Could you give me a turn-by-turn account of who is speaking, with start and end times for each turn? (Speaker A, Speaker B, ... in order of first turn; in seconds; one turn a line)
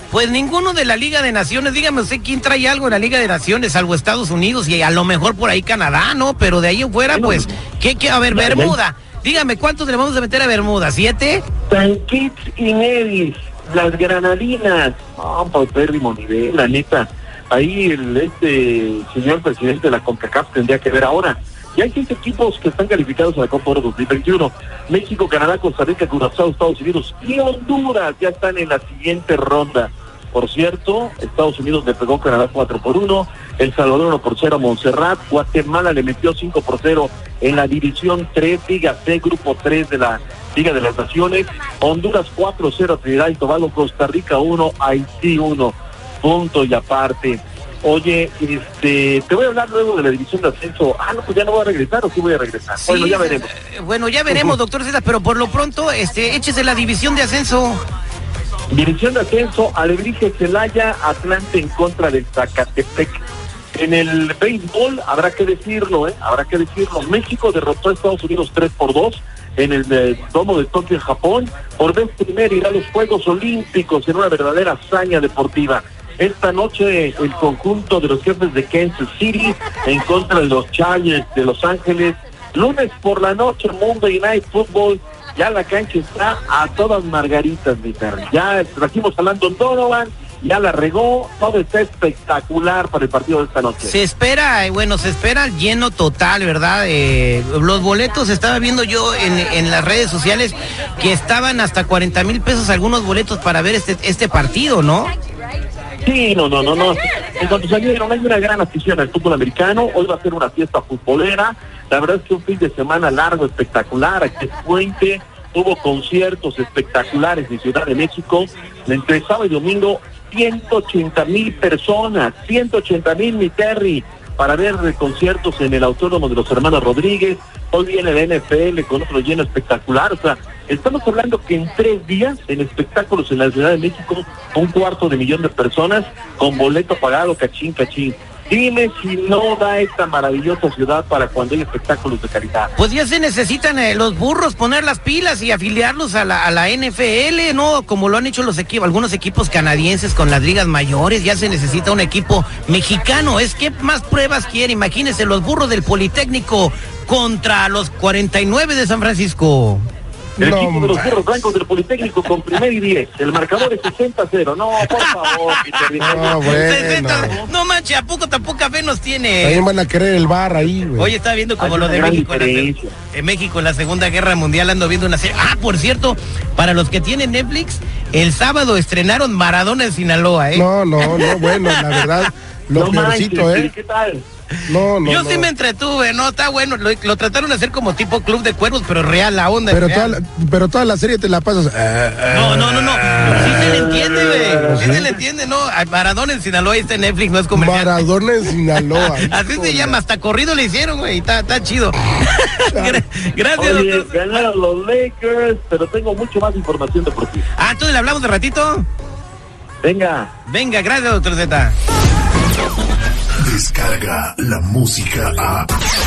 Speaker A: 0.1-11.4
Speaker B: 7.1-7.5
Speaker B: 8.3-8.8
Speaker B: 11.7-53.5
Speaker A: 52.8-57.8
Speaker B: 58.7-63.2
Speaker B: 63.7-94.0
Speaker A: 93.8-105.1
Speaker B: 106.0-142.7
Speaker A: 142.8-159.8
Speaker C: 160.4-161.0
Speaker B: 160.4-167.5
Speaker A: 164.9-169.6
Speaker C: 166.0-167.4
Speaker C: 169.4-171.1
Speaker A: 170.9-182.3
Speaker B: 171.6-172.9
Speaker C: 180.5-183.7
Speaker B: 182.7-184.2
Speaker A: 184.6-190.2
Speaker C: 184.7-185.5
Speaker C: 189.7-195.1
Speaker A: 192.3-204.5
Speaker B: 193.4-194.8
Speaker C: 197.5-200.0
Speaker C: 202.7-203.0
Speaker B: 203.6-207.4
Speaker A: 207.6-208.8
Speaker B: 209.8-210.3
Speaker A: 210.4-211.7
Speaker D: 213.4-215.7